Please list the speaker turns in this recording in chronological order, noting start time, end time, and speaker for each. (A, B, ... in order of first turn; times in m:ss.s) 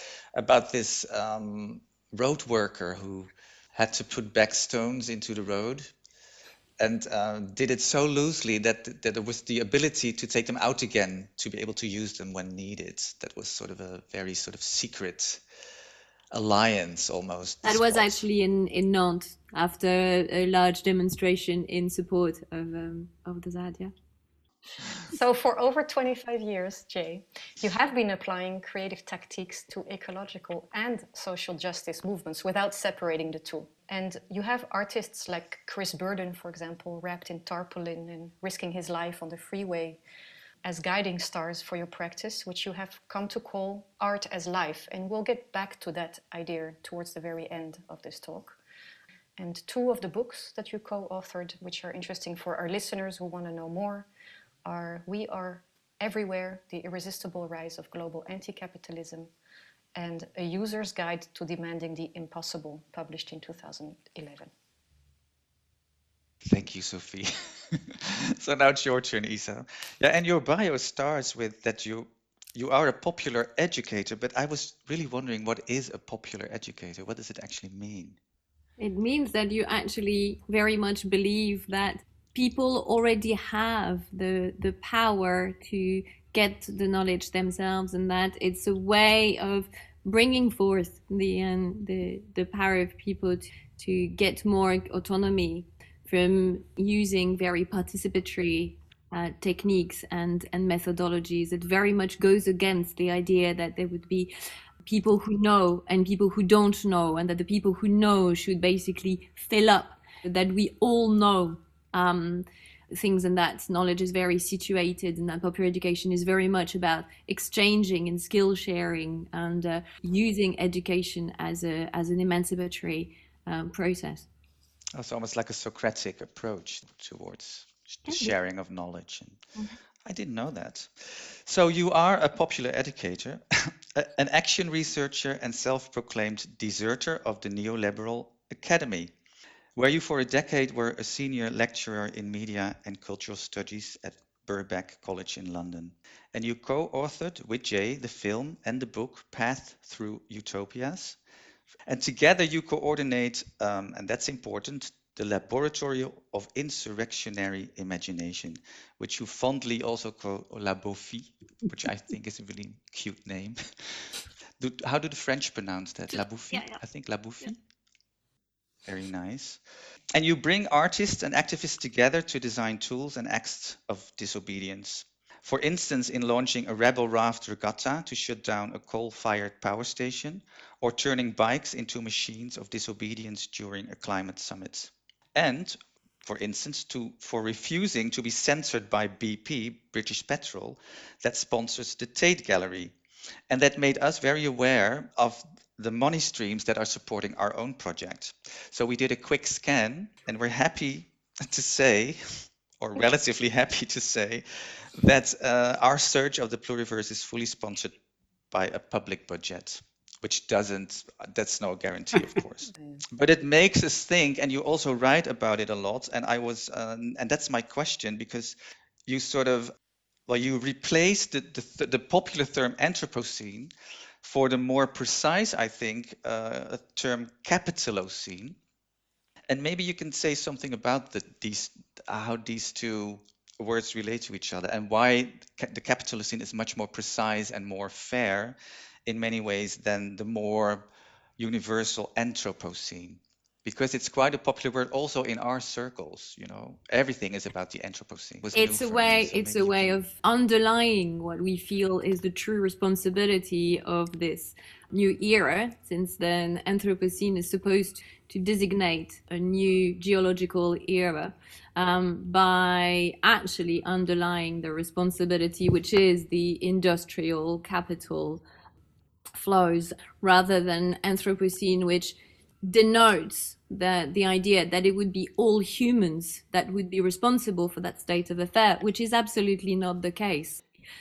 0:00.3-0:05.9 A
0:06.8-0:15.4 A
0:16.3-0:18.2 A
0:17.6-0:23.9 B
0:25.1-0:40.0 C
0:40.6-0:48.6 C
0:49.4-0:54.1 C
0:54.6-0:59.3 C
1:00.0-1:04.5 C
1:06.4-1:18.2 A
1:18.8-1:44.3 B
1:44.8-2:04.2 B
2:04.9-2:09.4 A
2:10.0-2:19.1 A
2:19.8-2:31.2 A
2:31.9-2:47.6 A
2:46.5-2:46.8 B
2:48.8-2:49.6 A
2:50.1-3:12.9 A
3:13.5-3:27.9 A
3:28.5-3:38.6 A
3:32.8-3:33.0 C
3:39.1-3:39.7 A
3:40.3-3:48.6 A
3:49.5-4:00.8 A
4:01.4-4:10.0 A
4:08.5-4:28.4 B
4:29.3-4:40.6 B